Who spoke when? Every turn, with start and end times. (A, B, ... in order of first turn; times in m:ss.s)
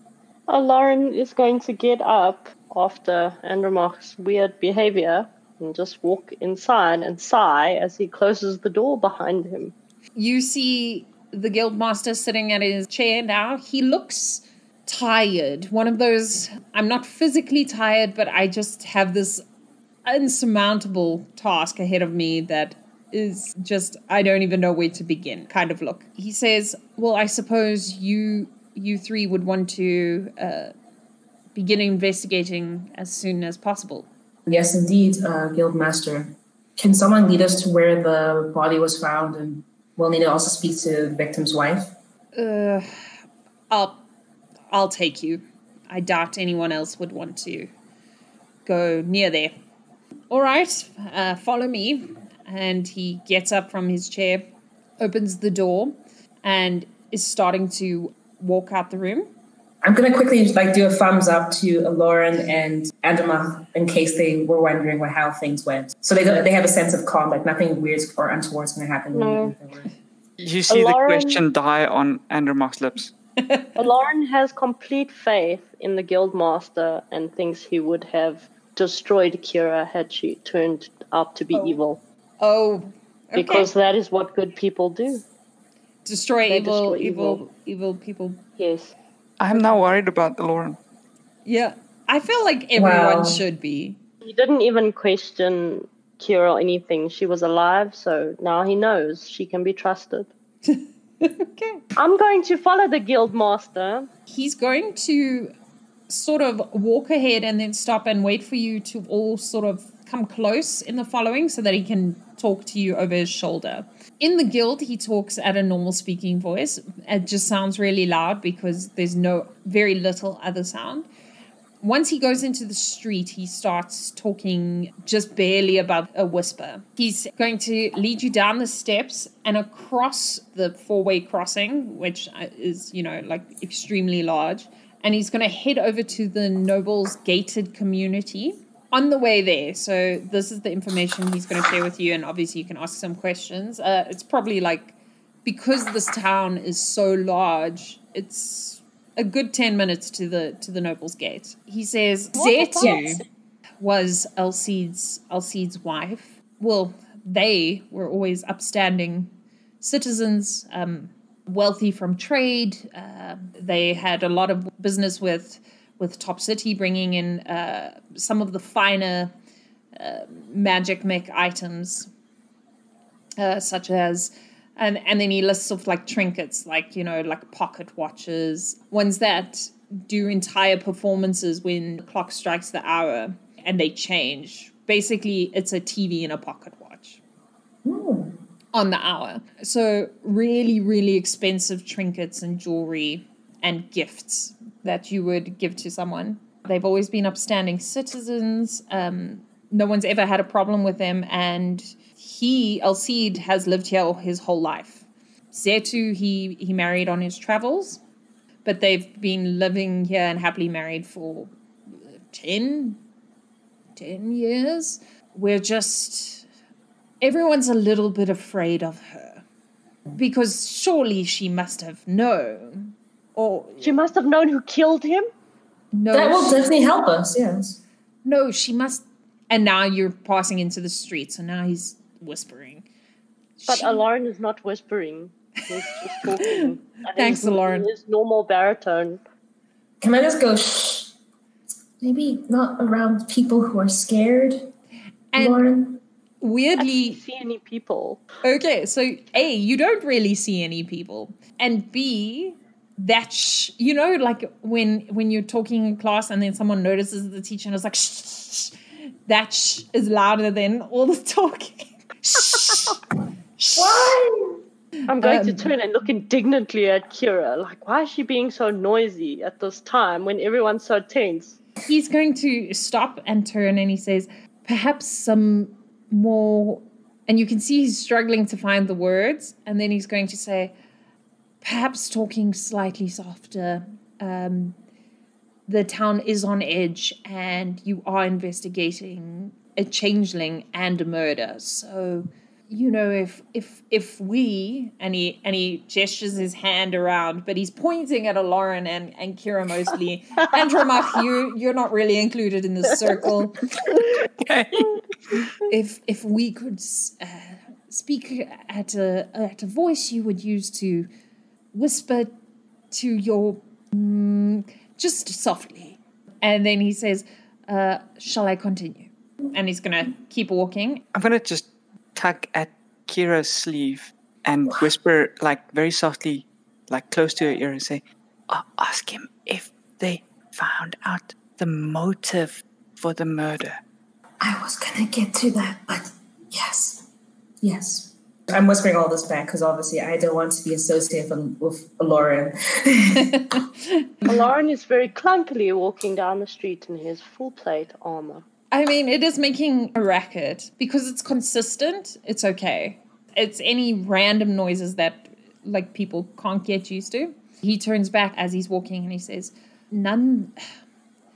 0:00.5-0:09.7 A
0:10.2-0:19.4 B
0:20.0-0:30.7 B
0:31.5-0:34.1 B
0:34.5-0:41.9 C
0:42.4-0:42.9 B
0:43.7-0:44.0 B
0:44.7-0:47.7 B
0:48.6-0:49.5 B
0:50.3-0:54.5 B
0:55.0-0:59.3 B
0:59.8-1:09.9 C
1:09.1-1:09.5 A
1:10.4-1:13.1 D
1:10.7-1:11.4 A
1:13.4-1:13.7 B
1:13.8-1:22.0 A
1:22.4-1:23.7 B
1:23.4-1:25.2 A
1:26.0-1:28.4 B
1:26.5-1:27.4 A
1:28.6-1:28.9 A
1:29.4-1:30.8 D
1:31.4-1:34.0 B
1:32.8-1:33.4 C
1:34.2-1:40.3 A
1:40.6-1:41.8 B
1:42.0-1:44.1 A
1:44.3-1:45.5 B
1:46.1-2:01.1 B
2:01.8-2:33.2 B
2:32.4-2:33.2 A
2:32.8-2:33.2 C
2:33.8-2:49.3 B
2:49.9-2:52.1 B
2:53.4-3:07.2 B
3:07.8-3:08.4 C
3:08.7-3:28.0 B
3:28.6-3:31.5 B
3:32.3-3:33.0 B
3:34.0-3:36.4 B
3:37.2-3:39.4 B
3:40.1-3:43.9 B
3:43.8-3:45.3 A
3:45.9-3:46.7 B
3:46.1-3:47.8 C
3:48.2-3:52.8 B
3:53.6-3:54.0 B
3:53.7-3:59.2 A
3:56.2-3:57.9 B
4:00.0-4:01.1 C
4:02.0-4:04.7 C
4:05.3-4:05.6 B
4:05.4-4:06.0 C
4:06.4-4:07.2 B
4:06.8-4:08.2 A
4:08.4-4:18.8 B
4:19.3-4:23.0 B
4:23.6-4:24.1 B
4:23.8-4:24.6 C
4:25.1-4:31.6 A
4:25.2-4:25.7 B
4:31.8-4:40.7 B
4:41.6-4:44.8 B
4:45.7-5:03.9 B
5:03.9-5:04.9 D
5:05.7-5:11.1 B
5:11.7-5:12.3 B
5:12.9-5:21.0 B
5:21.1-5:33.8 D
5:34.4-5:37.0 C
5:37.6-5:43.5 C
5:43.4-5:44.3 B
5:44.3-5:48.4 A
5:48.7-6:00.6 B